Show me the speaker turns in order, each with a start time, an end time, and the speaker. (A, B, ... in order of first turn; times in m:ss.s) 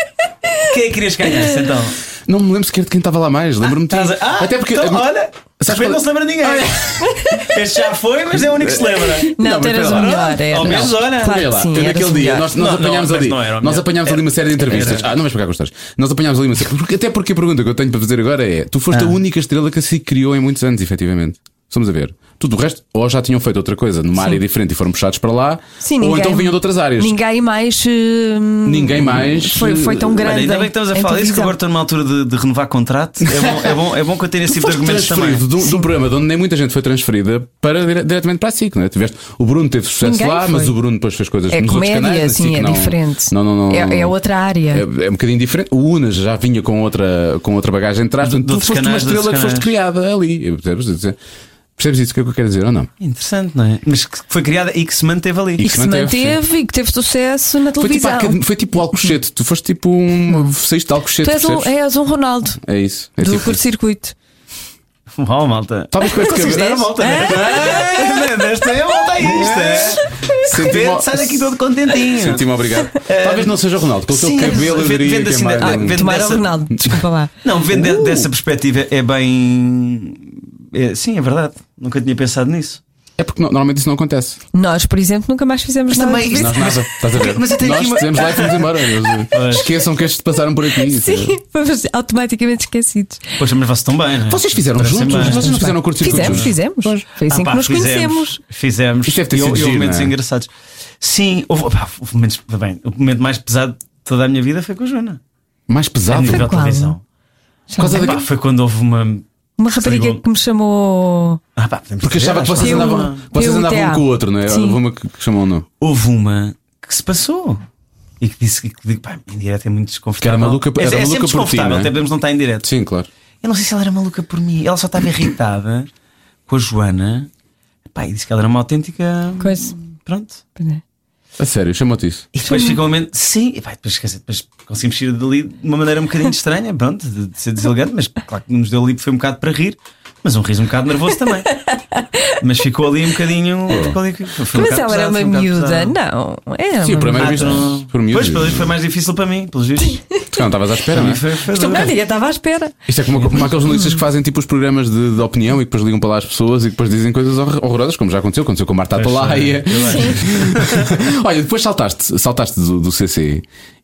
0:00.6-0:02.0 A
0:02.2-0:07.4 B
0:03.6-0:11.4 A
0:07.0-0:07.5 C
0:08.3-0:27.2 B
0:09.2-0:12.5 C
0:12.5-0:15.1 A
0:18.9-0:19.2 A
0:25.8-0:31.5 C
0:28.6-0:30.3 B
0:30.2-0:35.5 A
0:33.3-0:33.8 B
0:34.4-0:44.2 B
0:35.6-0:35.9 C
0:40.0-0:40.8 C
0:41.5-0:44.8 C
0:44.7-0:51.2 B
0:48.2-0:49.7 A
0:51.8-0:52.9 B
0:53.0-0:55.6 A
0:55.6-0:56.4 B
0:55.6-0:58.4 C
0:57.8-1:01.7 B
1:01.2-1:02.6 C
1:02.6-1:03.6 B
1:03.2-1:04.1 C
1:05.1-1:13.6 A
1:05.9-1:08.1 B
1:06.0-1:08.7 C
1:09.2-1:10.6 C
1:09.2-1:11.4 B
1:12.0-1:16.0 B
1:14.1-1:22.8 A
1:15.6-1:17.3 C
1:17.7-1:18.3 B
1:23.2-1:24.4 B
1:24.5-1:26.8 C
1:25.9-1:29.7 A
1:26.3-1:31.4 B
1:30.7-1:33.4 C
1:33.4-1:36.5 A
1:34.3-1:37.0 B
1:35.2-1:38.4 C
1:37.3-1:40.5 A
1:39.0-1:40.1 B
1:41.0-1:45.2 A
1:45.7-1:46.5 B
1:46.1-1:47.0 A
1:46.2-1:47.0 C
1:47.7-1:48.2 C
1:47.8-1:48.2 B
1:47.9-1:50.2 A
1:49.6-1:51.4 C
1:51.6-1:53.3 A
1:52.0-1:55.6 B
1:52.6-1:54.8 C
1:55.8-1:57.6 A
1:58.2-2:02.7 A
2:00.2-2:01.9 B
2:02.6-2:03.1 B
2:03.4-2:05.9 A
2:06.5-2:07.3 A
2:07.9-2:10.4 A
2:09.4-2:09.7 C
2:10.6-2:10.8 C
2:11.4-2:12.3 B
2:12.3-2:21.5 A
2:12.4-2:12.8 C
2:21.5-2:22.4 C
2:22.4-2:26.0 A
2:23.7-2:24.0 B
2:24.5-2:27.6 C
2:26.8-2:28.7 B
2:27.2-2:30.0 A
2:30.3-2:31.2 B
2:30.9-2:31.9 A
2:31.5-2:32.7 C
2:32.8-2:43.4 B
2:33.2-2:33.4 A
2:33.6-2:34.0 C
2:38.9-2:40.9 A
2:39.9-2:40.1 C